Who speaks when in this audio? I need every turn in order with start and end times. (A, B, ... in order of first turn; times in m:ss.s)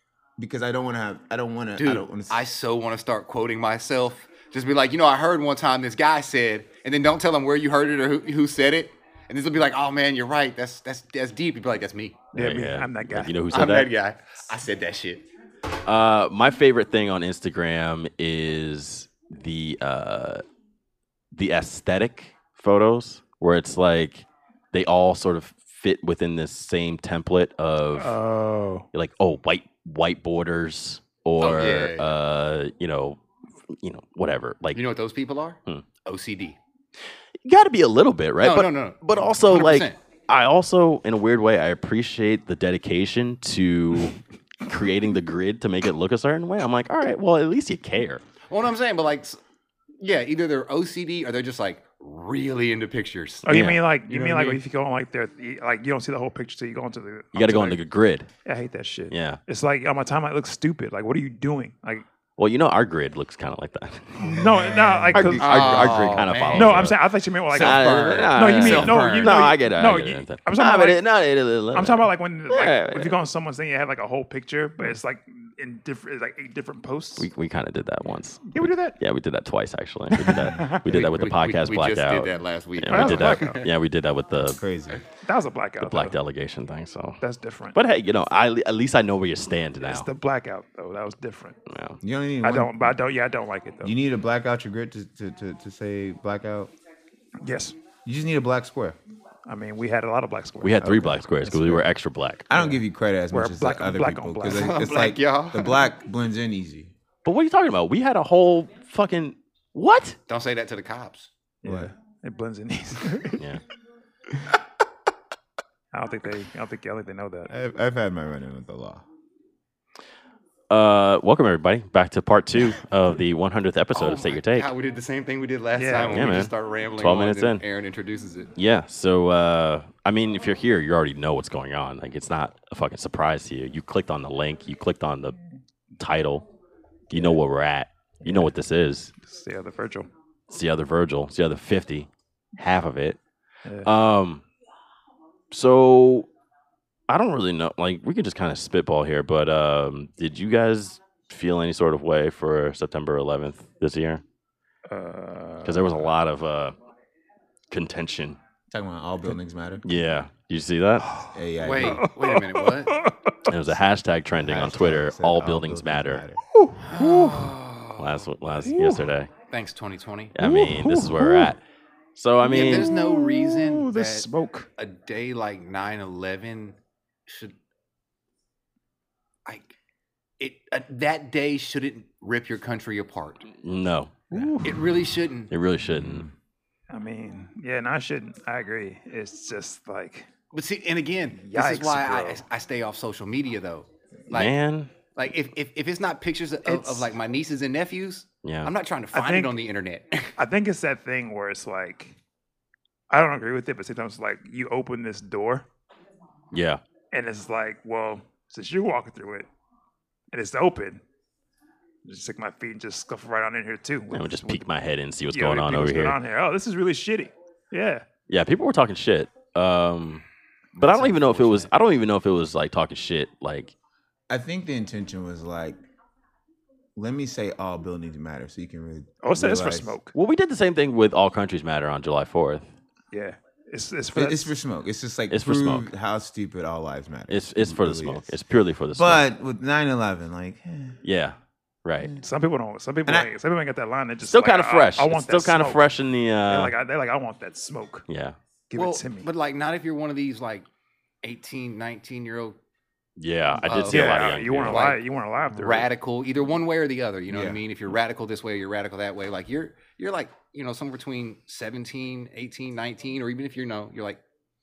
0:00.4-0:02.4 A
0:01.8-0:12.3 B
0:12.3-0:13.3 C
0:12.3-0:13.9 D
0:13.5-0:15.2 B
0:15.8-0:20.4 D
0:21.3-0:28.2 D
0:28.0-0:28.9 C
0:28.9-0:33.2 D
0:31.4-0:32.1 B
0:33.8-0:34.8 D
0:34.7-0:36.6 B
0:37.4-0:48.2 D
0:38.4-0:40.0 B
0:48.5-0:49.4 B
0:50.0-0:54.6 B
0:53.4-0:57.8 C
0:53.5-0:53.8 D
0:57.3-0:58.3 D
0:58.4-1:02.0 C
0:59.1-0:59.4 D
1:02.4-1:04.4 D
1:04.2-1:11.0 C
1:04.4-1:05.2 A
1:05.1-1:13.2 D
1:05.4-1:07.0 B
1:07.5-1:09.5 B
1:11.7-1:17.3 C
1:17.2-1:24.6 D
1:18.5-1:19.0 C
1:20.2-1:20.9 C
1:20.9-1:23.7 B
1:22.9-1:23.6 C
1:24.5-1:25.0 A
1:25.2-1:26.2 C
1:25.8-1:27.2 D
1:27.2-1:27.8 C
1:27.7-1:30.1 D
1:29.8-1:31.6 C
1:31.7-1:32.0 D
1:32.0-1:33.0 A
1:32.4-1:34.0 C
1:33.8-1:36.7 A
1:37.4-1:37.8 C
1:38.0-1:39.0 A
1:39.5-1:41.2 C
1:40.6-1:42.5 D
1:40.8-1:41.9 A
1:42.5-1:46.9 A
1:43.3-1:44.8 C
1:44.5-1:45.8 B
1:47.2-1:50.2 D
1:50.3-1:51.3 B
1:51.6-1:53.4 C
1:51.6-1:51.9 A
1:55.9-1:57.5 C
1:57.5-1:59.0 A
2:00.7-2:04.7 D
2:03.9-2:08.5 B
2:05.8-2:06.4 C
2:06.0-2:07.6 D
2:08.6-2:15.4 D
2:16.0-2:16.5 D
2:17.1-2:19.1 D
2:18.2-2:18.5 C
2:19.2-2:20.1 C
2:20.5-2:23.2 D
2:23.8-2:24.4 D
2:25.5-2:26.3 D
2:27.1-2:34.2 D
2:34.9-2:36.1 C
2:35.6-2:36.8 D
2:37.7-2:38.4 D
2:38.7-2:39.8 A
2:39.8-2:41.2 D
2:41.3-2:42.1 A
2:41.6-2:43.0 B
2:41.9-2:43.4 C
2:43.5-2:46.2 D
2:44.3-2:46.4 A
2:46.5-2:47.5 C
2:46.9-2:48.3 B
2:48.0-2:49.3 D
2:48.6-2:49.1 C
2:49.5-2:50.3 B
2:50.4-2:51.6 D
2:50.4-2:51.5 C
2:52.2-2:53.0 D
2:52.4-2:56.8 B
2:52.5-2:54.7 C
2:57.3-2:57.6 B
2:59.5-2:59.7 B
3:00.4-3:03.4 B
3:03.6-3:04.5 D
3:04.3-3:04.8 C
3:04.6-3:05.5 B
3:05.5-3:06.3 D
3:06.0-3:06.3 A
3:06.9-3:10.3 C
3:10.5-3:14.6 B
3:11.4-3:12.4 C
3:14.3-3:14.9 D
3:15.2-3:20.3 B
3:16.6-3:17.1 C
3:18.4-3:18.7 D
3:19.1-3:19.6 C
3:20.4-3:22.2 C
3:23.1-3:25.6 C
3:26.5-3:26.8 D
3:27.1-3:29.5 C
3:30.3-3:31.0 C
3:32.0-3:34.7 C
3:34.1-3:36.2 D
3:35.3-3:38.1 C
3:38.3-3:40.2 D
3:40.8-3:43.7 D
3:41.0-3:41.6 C
3:44.3-3:45.8 A
3:47.0-3:50.0 A
3:49.2-3:50.1 C
3:50.1-3:52.7 D
3:53.1-3:54.6 C
3:54.1-3:58.4 A
3:55.3-3:55.9 D
3:57.3-3:59.2 D
3:58.9-4:01.0 A
4:01.0-4:02.1 D
4:02.2-4:05.8 C
4:03.1-4:03.3 A
4:04.2-4:06.7 D
4:06.5-4:08.1 C
4:08.1-4:08.4 D
4:08.7-4:09.3 C
4:08.7-4:10.7 B
4:11.2-4:12.6 B
4:13.2-4:15.0 D
4:13.6-4:15.0 B
4:13.9-4:15.9 C
4:15.5-4:24.2 B
4:17.3-4:17.6 A